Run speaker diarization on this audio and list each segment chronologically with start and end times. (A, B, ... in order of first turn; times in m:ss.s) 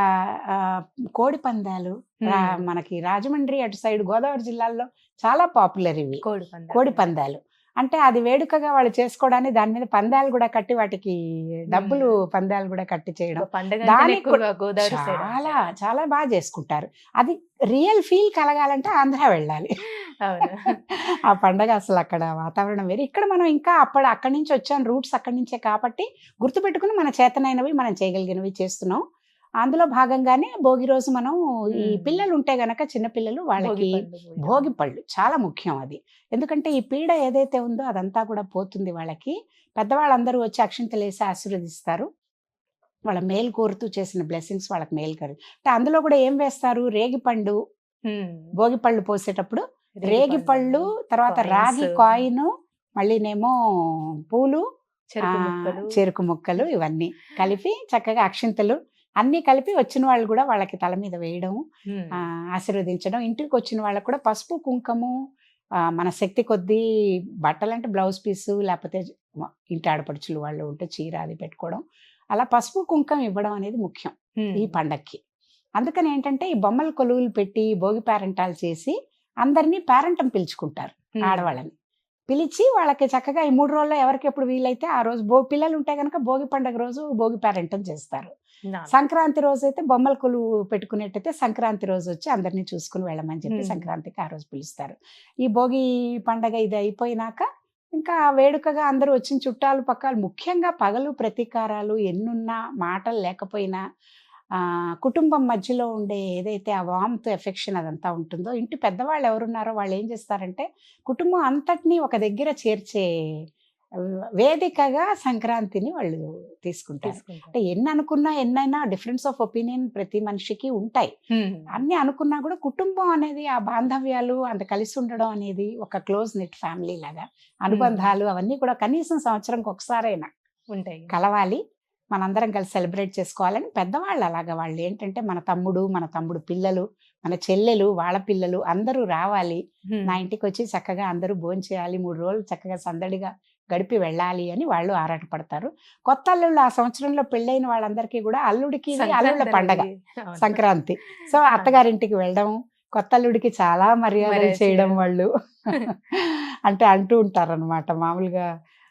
0:00.5-0:06.2 A
0:02.2-0:02.6 B
0:06.2-0:07.1 B
0:06.7-0:11.2 A
0:11.7-0:19.7 A
0:11.7-0:12.1 B
0:13.4-0:15.7 B
0:20.2-0:20.7 B
0:20.4-0:29.0 A
0:29.6-0:42.1 A
0:31.8-0:32.2 B
0:33.6-0:34.7 B
0:43.1-0:47.6 A
0:48.1-0:48.5 B
0:48.6-0:52.5 A
0:50.0-0:52.2 B
0:53.0-0:53.5 A
0:54.3-0:54.6 A
0:55.1-0:56.0 B
0:55.3-1:01.6 A
1:01.9-1:02.2 B
1:02.2-1:05.1 A
1:06.0-1:06.8 A
1:07.4-1:11.8 A
1:12.3-1:15.2 A
1:14.4-1:14.8 B
1:15.8-1:21.7 A
1:21.2-1:21.5 B
1:22.3-1:28.3 A
1:28.9-1:37.5 A
1:33.5-1:33.9 B
1:38.0-1:43.8 A
1:45.0-1:53.1 A
1:54.4-2:01.1 A
1:57.0-1:57.6 B
2:01.3-2:01.7 B
2:01.8-2:10.3 A
2:07.7-2:08.1 B
2:10.7-2:11.1 B
2:11.1-2:11.6 A
2:12.2-2:29.9 A
2:19.9-2:20.2 B
2:29.0-2:30.6 B
2:30.4-2:35.3 A
2:31.5-2:31.8 B
2:34.2-2:35.1 B
2:36.1-2:38.4 A